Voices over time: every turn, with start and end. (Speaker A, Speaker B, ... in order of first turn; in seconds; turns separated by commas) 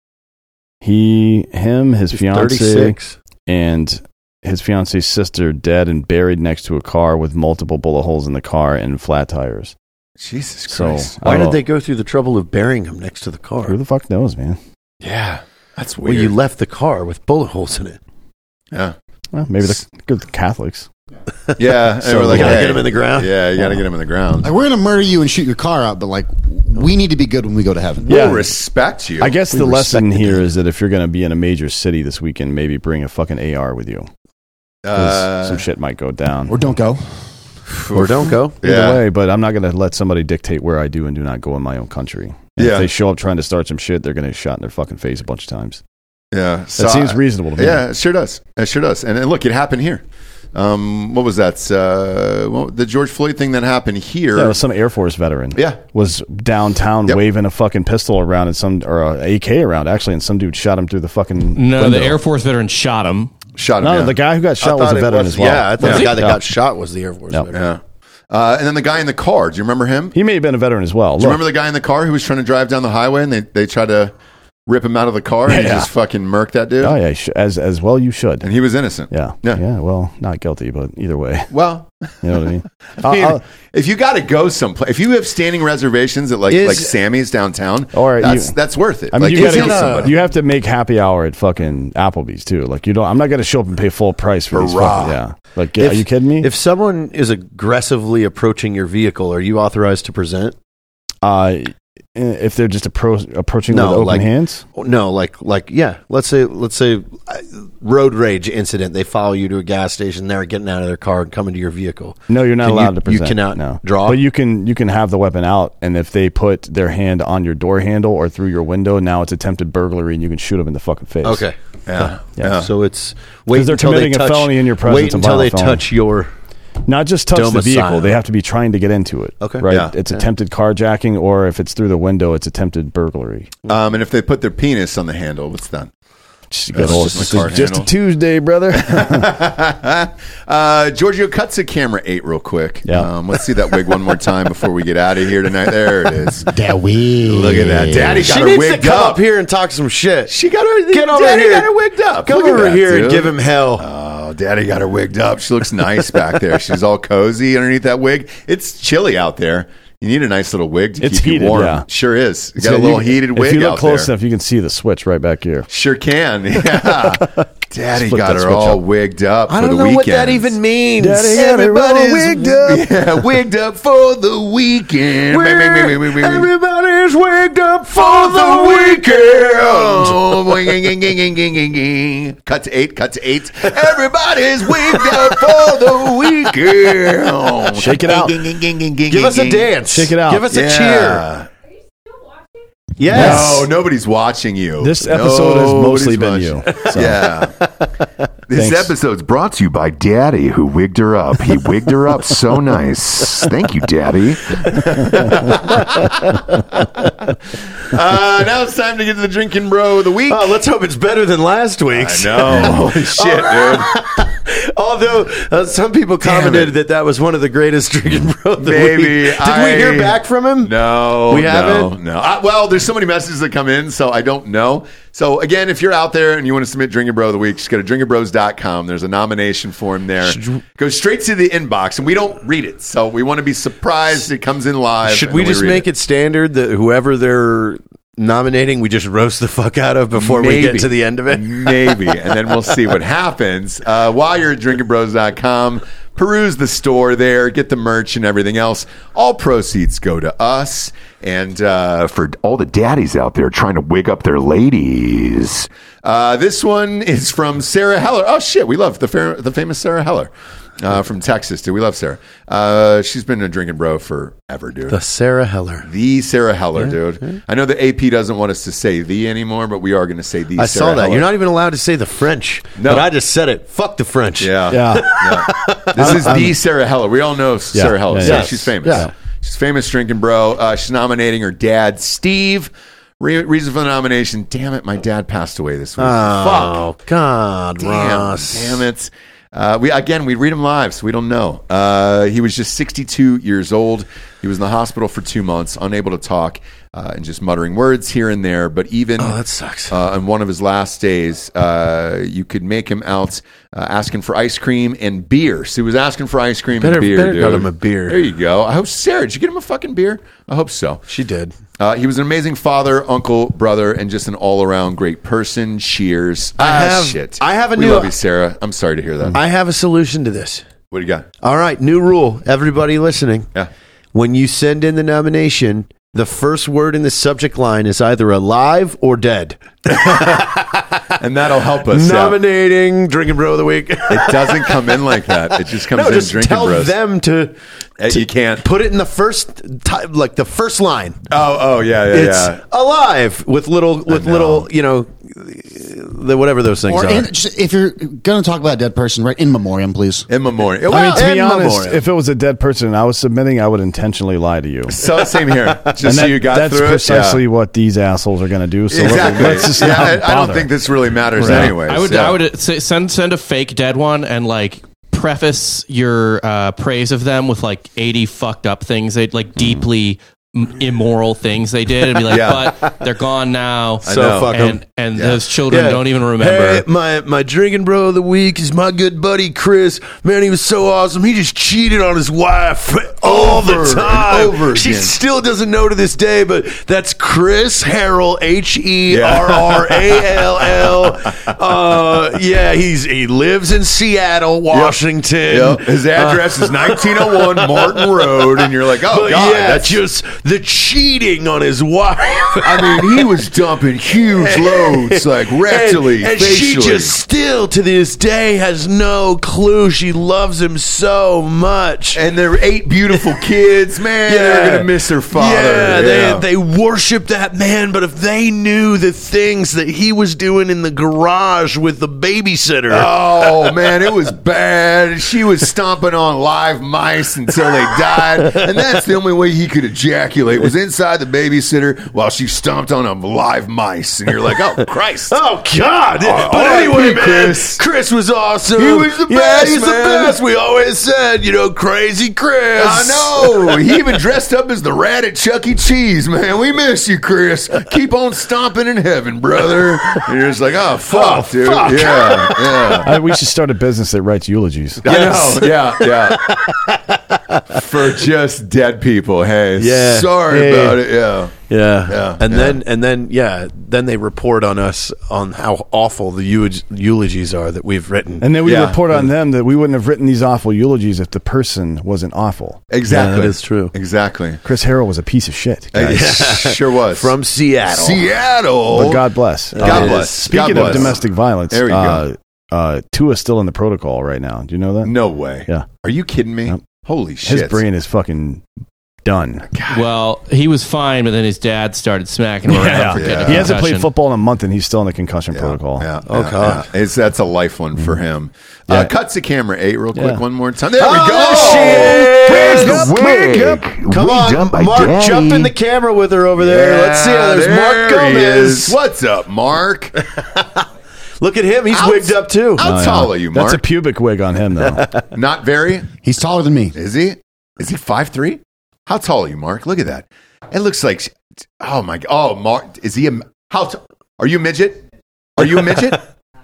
Speaker A: 0.8-9.7, Speaker B: 2.1-3.1, Speaker C: 10.2-11.2, Speaker A: 10.7-11.6, Speaker B: 11.2-13.8, Speaker A: 13.6-14.6, Speaker C: 15.0-16.3, Speaker B: 16.0-18.0, Speaker A: 19.3-20.9, Speaker C: 21.6-24.5, Speaker B: 22.0-23.3, Speaker A: 22.3-22.7, Speaker D: 24.4-28.2, Speaker C: 28.1-29.4, Speaker A: 28.1-28.4, Speaker A: 29.2-34.1, Speaker B: 29.8-30.1, Speaker C: 34.8-35.6, Speaker A: 35.0-36.7, Speaker D: 36.5-37.0, Speaker C: 37.9-39.0, Speaker B: 37.9-38.6, Speaker A: 38.6-45.8, Speaker C: 42.6-42.9, Speaker C: 46.3-50.0, Speaker A: 46.8-47.8, Speaker C: 50.5-54.6, Speaker A: 54.3-62.2, Speaker E: 61.5-63.3, Speaker C: 63.6-64.2, Speaker A: 63.8-66.4, Speaker B: 64.6-67.6, Speaker C: 65.8-66.0, Speaker C: 67.5-70.1, Speaker A: 70.1-71.4, Speaker C: 71.2-74.1, Speaker C: 74.7-77.0, Speaker A: 75.5-75.9, Speaker A: 76.8-78.5, Speaker C: 78.4-79.6, Speaker A: 79.1-81.5, Speaker C: 81.5-82.2, Speaker A: 82.2-83.4, Speaker C: 83.0-90.2, Speaker B: 86.5-86.9, Speaker A: 87.9-88.5, Speaker A: 89.1-96.5, Speaker B: 89.3-90.2, Speaker C: 94.5-95.2, Speaker B: 95.8-100.5, Speaker A: 101.2-104.6, Speaker B: 103.7-114.2, Speaker A: 112.3-121.4, Speaker B: 121.2-121.5, Speaker C: 121.9-122.7, Speaker A: 122.0-122.7, Speaker B: 122.5-126.3, Speaker A: 123.5-125.8, Speaker A: 126.9-133.5, Speaker B: 127.3-128.1, Speaker B: 129.4-130.2, Speaker C: 129.7-129.9, Speaker C: 133.7-135.9, Speaker A: 136.5-139.3, Speaker C: 136.7-137.9, Speaker B: 136.8-137.5, Speaker C: 138.7-146.5, Speaker A: 142.8-143.1, Speaker D: 146.5-148.3, Speaker C: 147.3-149.2, Speaker B: 148.2-150.3, Speaker C: 150.3-164.1, Speaker B: 150.9-153.8, Speaker A: 161.0-161.8, Speaker A: 162.6-165.7, Speaker C: 165.7-170.5, Speaker A: 167.9-168.8, Speaker B: 169.5-172.9, Speaker A: 171.0-172.4, Speaker C: 171.3-176.5, Speaker B: 175.3-180.7, Speaker C: 177.9-189.7, Speaker B: 184.9-186.1, Speaker A: 187.8-188.3, Speaker B: 189.1-191.2, Speaker A: 189.9-190.5, Speaker C: 190.5-191.5, Speaker B: 193.0-193.7, Speaker C: 193.1-197.5, Speaker A: 193.1-193.6, Speaker A: 194.8-197.2, Speaker B: 197.6-197.8, Speaker C: 198.5-206.8, Speaker A: 198.6-198.9, Speaker B: 205.5-205.8, Speaker C: 207.9-210.5, Speaker B: 210.3-221.9, Speaker C: 211.9-213.9, Speaker C: 216.2-216.8, Speaker C: 218.6-235.8, Speaker B: 230.2-230.6, Speaker B: 235.0-242.3, Speaker C: 240.1-265.0, Speaker B: 264.9-265.9, Speaker C: 265.8-271.3, Speaker B: 266.8-267.4, Speaker B: 270.6-276.5, Speaker C: 272.8-273.1, Speaker C: 274.4-286.8, Speaker A: 274.7-275.1, Speaker A: 276.0-276.4, Speaker A: 277.7-279.1, Speaker B: 278.2-279.1, Speaker B: 286.0-288.8, Speaker C: 287.8-299.4, Speaker B: 299.2-300.0, Speaker C: 299.9-311.0, Speaker B: 306.8-308.2, Speaker B: 311.1-311.5, Speaker C: 311.8-319.4, Speaker B: 316.6-318.1, Speaker B: 319.3-320.6, Speaker C: 320.9-321.3, Speaker B: 321.4-323.5, Speaker B: 324.1-330.8, Speaker C: 329.9-330.5, Speaker C: 331.2-332.4, Speaker B: 331.8-337.5, Speaker C: 334.1-336.9, Speaker C: 338.0-338.6, Speaker B: 338.1-341.2, Speaker C: 341.3-342.6, Speaker B: 342.1-347.3, Speaker C: 344.1-344.7, Speaker D: 346.8-350.3, Speaker C: 350.3-351.2, Speaker A: 350.9-355.0, Speaker B: 350.9-352.0, Speaker C: 354.9-357.4, Speaker B: 355.6-355.9, Speaker A: 356.0-360.7, Speaker C: 358.9-362.4, Speaker B: 361.4-361.7, Speaker A: 361.4-361.7, Speaker E: 361.6-376.8, Speaker C: 372.3-372.6, Speaker B: 374.0-374.8, Speaker C: 374.0-375.4, Speaker B: 375.7-403.3, Speaker C: 383.2-385.1, Speaker C: 389.1-391.5, Speaker C: 394.7-395.0, Speaker C: 395.5-400.0, Speaker C: 402.6-407.2, Speaker B: 404.3-412.2, Speaker C: 412.1-416.4, Speaker B: 414.3-423.8, Speaker C: 422.9-435.3, Speaker B: 427.7-428.8, Speaker B: 435.3-444.0, Speaker C: 436.2-437.8, Speaker C: 438.8-440.4, Speaker C: 442.8-453.1, Speaker B: 451.1-453.1, Speaker A: 453.0-455.1, Speaker C: 455.0-456.5, Speaker B: 455.0-457.8, Speaker C: 457.7-462.8, Speaker B: 459.8-461.0, Speaker B: 461.7-468.6, Speaker A: 468.4-472.8, Speaker C: 468.6-469.0, Speaker C: 472.9-474.6, Speaker B: 473.1-473.9, Speaker A: 474.6-476.2, Speaker C: 475.9-477.3, Speaker B: 476.1-478.3, Speaker C: 477.9-479.2, Speaker A: 478.9-485.1, Speaker B: 479.7-481.2, Speaker C: 479.8-482.2, Speaker C: 485.0-487.8, Speaker A: 487.4-488.6, Speaker A: 489.2-489.6, Speaker C: 489.7-490.0, Speaker E: 489.9-494.1, Speaker A: 492.7-496.1, Speaker C: 493.1-493.7, Speaker C: 495.5-505.7, Speaker B: 496.2-496.9, Speaker A: 500.1-500.4, Speaker B: 500.9-508.9, Speaker C: 506.6-510.1, Speaker B: 510.2-510.8, Speaker B: 511.4-512.9, Speaker C: 511.9-513.8, Speaker A: 512.8-515.1, Speaker C: 515.3-516.1, Speaker D: 516.2-516.9, Speaker C: 516.9-525.0, Speaker C: 525.6-526.2